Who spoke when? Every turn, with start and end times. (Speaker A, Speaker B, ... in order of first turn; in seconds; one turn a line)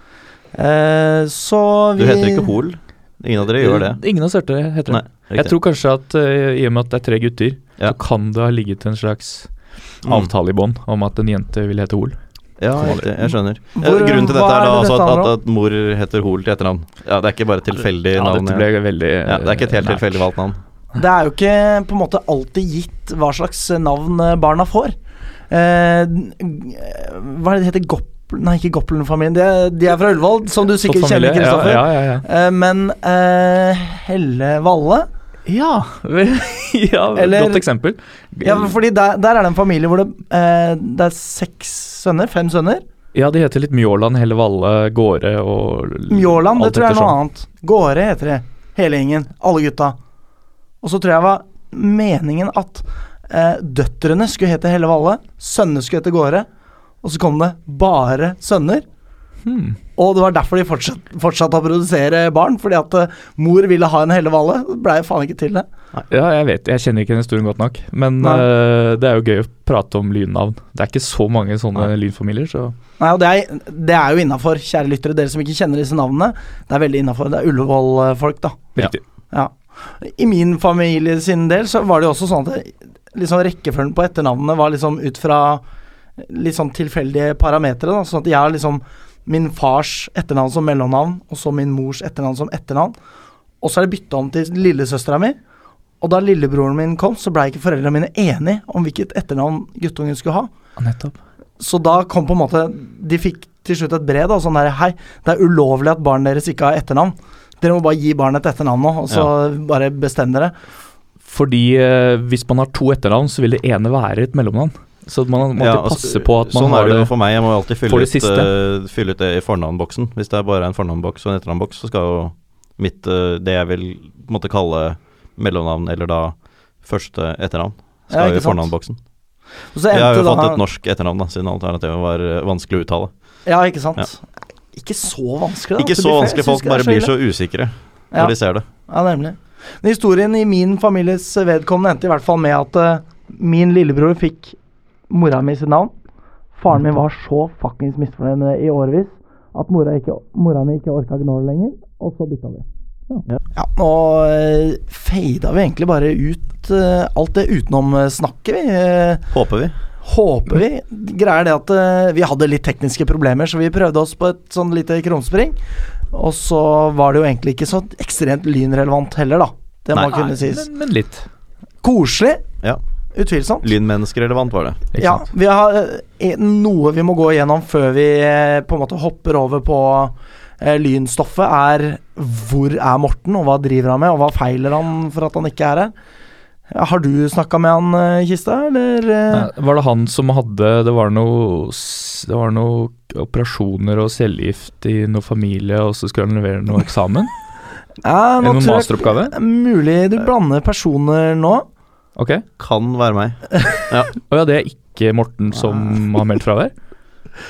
Speaker A: 0.5-2.5
Speaker B: 1.9-4.0
Speaker C: 3.6-9.5
Speaker B: 4.9-5.5
Speaker C: 10.0-12.2
Speaker B: 10.0-10.3
Speaker B: 12.6-18.7
Speaker C: 12.8-13.1
Speaker A: 13.8-15.3
Speaker C: 18.1-20.2
Speaker B: 19.2-20.6
Speaker A: 20.9-24.9
Speaker A: 25.5-35.1
Speaker C: 30.9-32.2
Speaker C: 35.5-38.7
Speaker A: 37.1-37.6
Speaker A: 38.4-42.8
Speaker C: 43.1-47.1
Speaker A: 46.1-50.0
Speaker A: 50.8-56.5
Speaker A: 57.0-58.8
Speaker C: 59.4-59.8
Speaker A: 60.0-65.7
Speaker C: 66.1-72.7
Speaker A: 73.0-78.6
Speaker A: 79.3-85.6
Speaker A: 86.2-93.0
Speaker A: 93.6-95.4
Speaker A: 96.0-100.5
Speaker C: 100.8-101.1
Speaker A: 101.6-110.5
Speaker C: 111.2-117.1
Speaker B: 115.6-129.0
Speaker C: 117.8-118.5
Speaker A: 128.1-128.7
Speaker A: 129.7-130.6
Speaker B: 129.9-133.1
Speaker A: 133.4-137.1
Speaker B: 135.8-138.7
Speaker A: 138.9-144.6
Speaker A: 145.1-145.9
Speaker A: 146.6-159.3
Speaker B: 159.3-159.7
Speaker A: 160.0-165.6
Speaker A: 166.1-170.6
Speaker C: 170.0-171.2
Speaker A: 171.8-172.4
Speaker A: 173.1-173.7
Speaker B: 173.6-174.9
Speaker C: 174.9-175.2
Speaker A: 174.9-185.9
Speaker A: 186.7-189.5
Speaker C: 189.3-197.3
Speaker A: 198.0-201.6
Speaker C: 198.4-199.3
Speaker C: 202.2-202.4
Speaker B: 202.6-204.1
Speaker C: 204.2-206.7